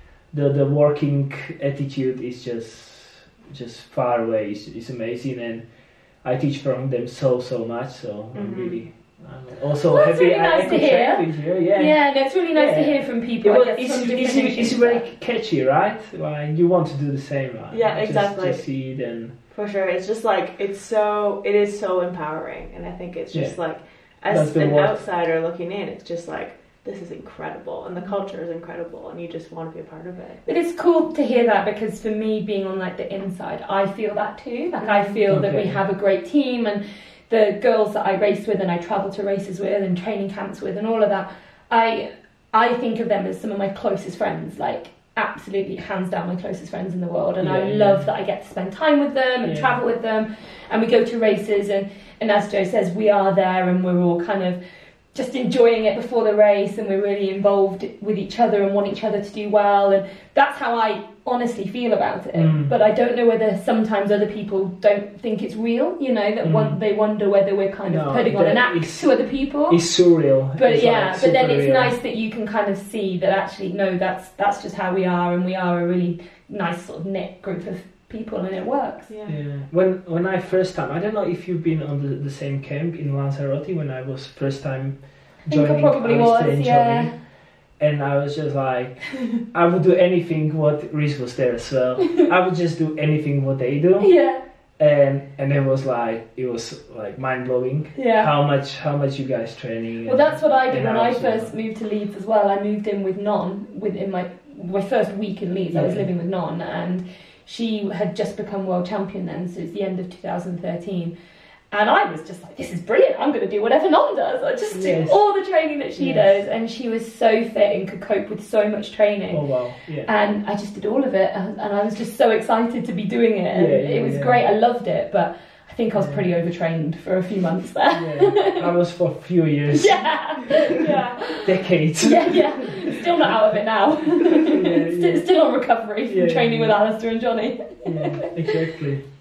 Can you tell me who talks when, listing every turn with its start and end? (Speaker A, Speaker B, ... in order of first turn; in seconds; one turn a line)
Speaker A: 0.3-19.3
Speaker B: 8.3-8.8
Speaker C: 9.9-15.0
Speaker B: 17.7-18.7
Speaker B: 19.5-30.4
Speaker A: 24.3-25.0
Speaker C: 30.5-54.6
Speaker A: 35.3-35.8
Speaker A: 47.4-48.1
Speaker A: 49.4-49.8
Speaker C: 55.1-69.9
Speaker A: 62.3-62.7
Speaker A: 66.4-66.8
Speaker A: 67.9-69.1
Speaker A: 69.7-72.0
Speaker C: 70.6-79.1
Speaker B: 79.1-79.4
Speaker A: 79.3-87.1
Speaker C: 85.5-87.1
Speaker A: 87.8-94.1
Speaker C: 94.0-94.4
Speaker A: 94.8-101.5
Speaker C: 98.0-98.3
Speaker C: 100.1-111.1
Speaker A: 105.7-106.1
Speaker C: 111.7-119.5
Speaker A: 114.7-115.2
Speaker A: 116.0-116.4
Speaker A: 119.3-120.1
Speaker C: 120.0-128.7
Speaker A: 123.5-124.5
Speaker A: 125.9-126.2
Speaker A: 127.9-130.1
Speaker C: 129.8-138.6
Speaker A: 131.3-133.0
Speaker A: 134.4-135.3
Speaker A: 136.1-136.8
Speaker A: 137.8-139.0